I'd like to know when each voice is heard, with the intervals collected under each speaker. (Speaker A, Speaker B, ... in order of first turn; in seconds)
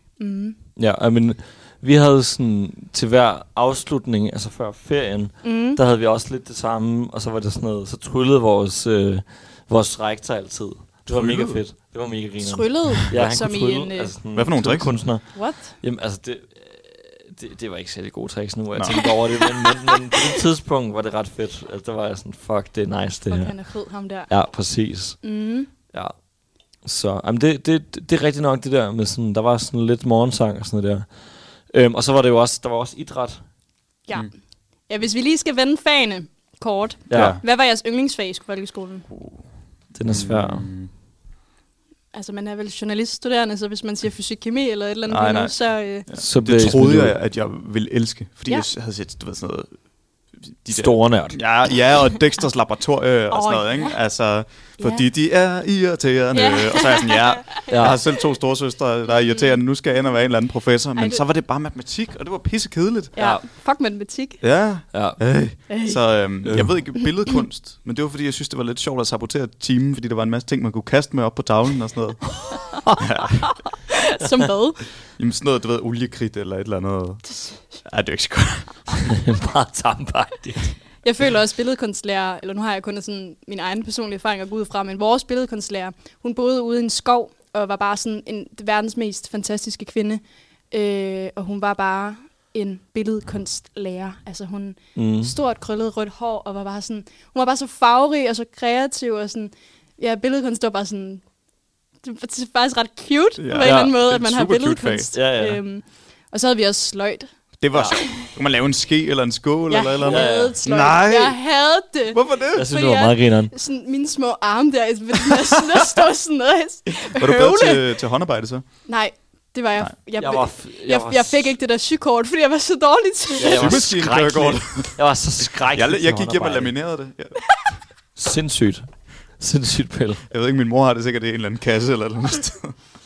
Speaker A: 0.2-0.6, 5.4-5.8, 12.4-14.1, 15.3-15.8, 18.9-20.2, 23.3-24.3, 25.2-25.7, 34.1-34.3, 34.9-39.1, 42.1-46.1, 53.3-54.0, 54.8-55.0, 56.3-57.9, 61.0-61.2, 63.1-64.4, 65.7-66.2, 73.7-74.8, 77.3-77.7, 81.0-101.2, 102.0-107.3, 108.0-108.2, 109.7-117.9, 118.9-123.8
Speaker B: 0.8-23.6, 24.3-26.1, 26.8-31.1, 31.7-33.4, 37.1-37.4, 39.9-40.7, 46.2-47.1, 50.7-51.4, 57.7-58.0, 63.2-63.4, 64.9-65.2, 66.4-66.8, 79.0-80.8, 95.0-95.3, 103.6-103.9, 105.1-105.6, 110.0-110.6, 112.5-113.5, 120.2-121.5, 123.4-126.7, 128.2-130.2
Speaker C: 11.1-11.6, 13.0-13.4, 14.3-15.1, 18.7-19.0, 37.1-37.4, 39.1-39.5, 40.0-40.9, 45.1-49.7, 50.4-63.1, 64.4-73.5, 75.2-78.9, 103.4-105.1, 107.6-111.4, 112.1-112.7, 117.0-118.6, 123.4-125.0, 125.7-127.4, 130.3-132.7